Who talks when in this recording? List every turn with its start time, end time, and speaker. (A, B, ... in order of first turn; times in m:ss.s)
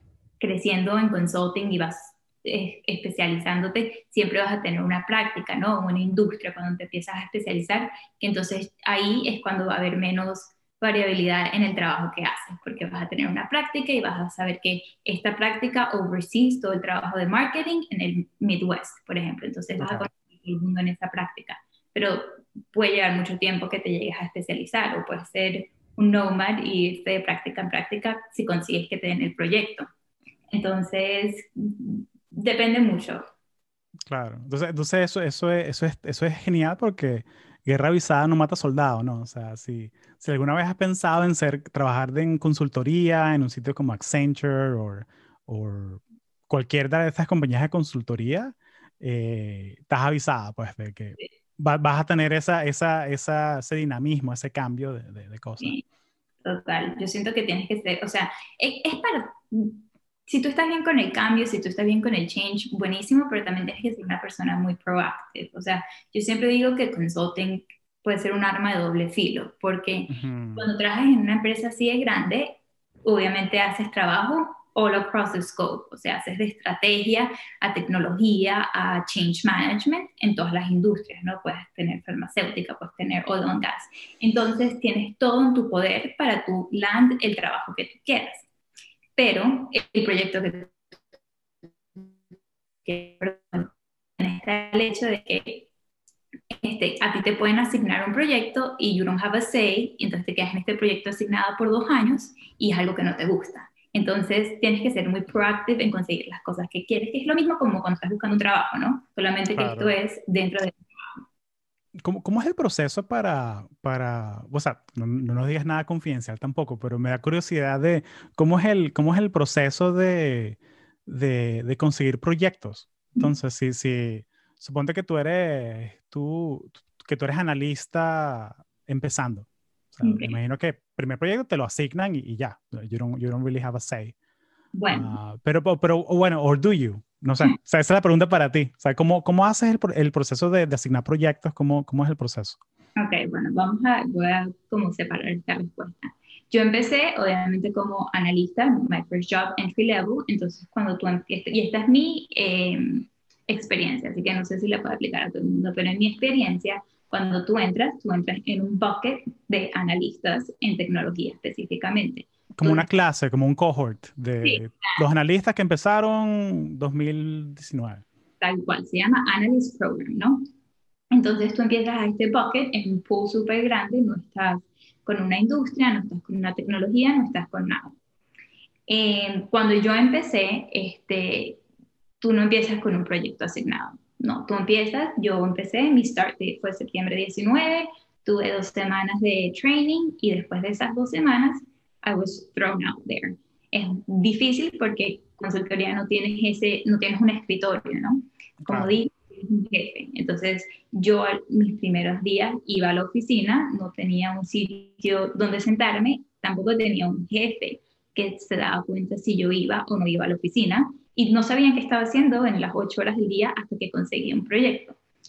0:00.4-0:29.9 A
0:19.8-0:20.1 B
0:30.5-0:33.2 A
0:34.1-0:55.7 B
0:56.4-1:28.4 A
1:10.1-1:10.7 B
1:29.2-1:30.7 A
1:32.8-1:35.7 A
1:36.6-1:50.8 A
1:49.5-1:50.0 B
1:52.0-2:14.1 B
2:10.0-2:10.3 A
2:14.8-2:15.2 A
2:14.9-2:22.6 B
2:23.0-2:42.9 A
2:42.6-2:48.0 B
2:44.4-2:45.0 A
2:48.4-2:50.4 A
2:51.1-2:58.0 A
2:58.9-3:01.6 A
3:02.2-3:35.0 A
3:18.6-3:19.0 B